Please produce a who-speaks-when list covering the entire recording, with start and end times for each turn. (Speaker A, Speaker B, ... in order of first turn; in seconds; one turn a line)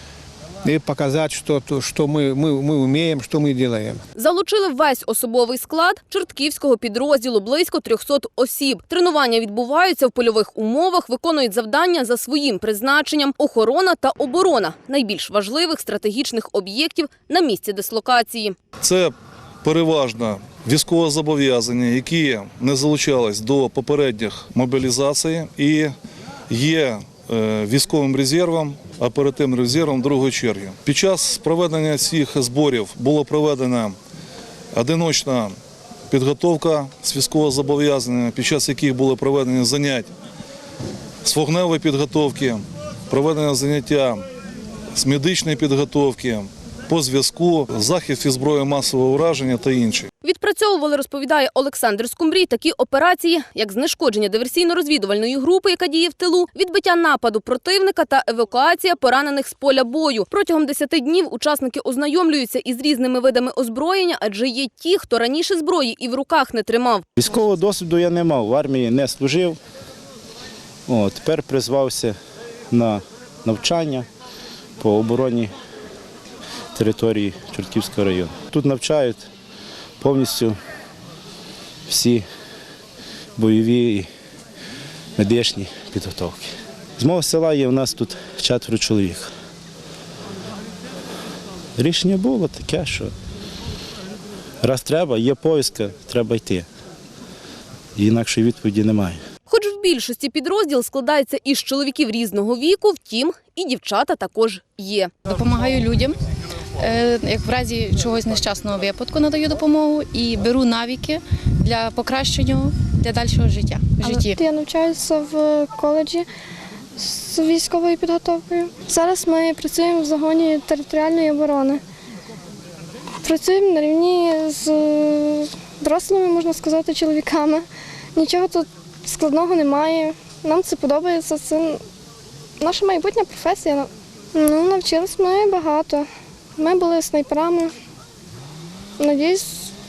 Speaker A: 0.6-4.0
Speaker B: 4.2-18.6
Speaker C: 18.8-25.9
Speaker C: 26.5-34.0
Speaker C: 34.7-35.5
Speaker C: 36.1-40.1
Speaker C: 41.2-44.2
Speaker C: 45.0-50.1
Speaker B: 50.2-67.0
Speaker D: 67.2-69.6
Speaker D: 70.9-72.2
Speaker D: 72.7-74.1
Speaker D: 74.8-75.5
Speaker D: 76.7-79.3
Speaker D: 80.0-80.6
Speaker D: 81.9-82.2
Speaker D: 83.4-84.1
Speaker D: 85.2-89.3
Speaker D: 91.8-93.1
Speaker D: 94.6-96.7
Speaker D: 98.0-99.2
Speaker B: 99.5-105.2
Speaker E: 105.2-106.2
Speaker E: 106.8-114.4
Speaker F: 114.0-116.3
Speaker F: 117.0-121.8
Speaker F: 123.2-131.8
Speaker F: 132.6-137.7
Speaker F: 139.0-139.7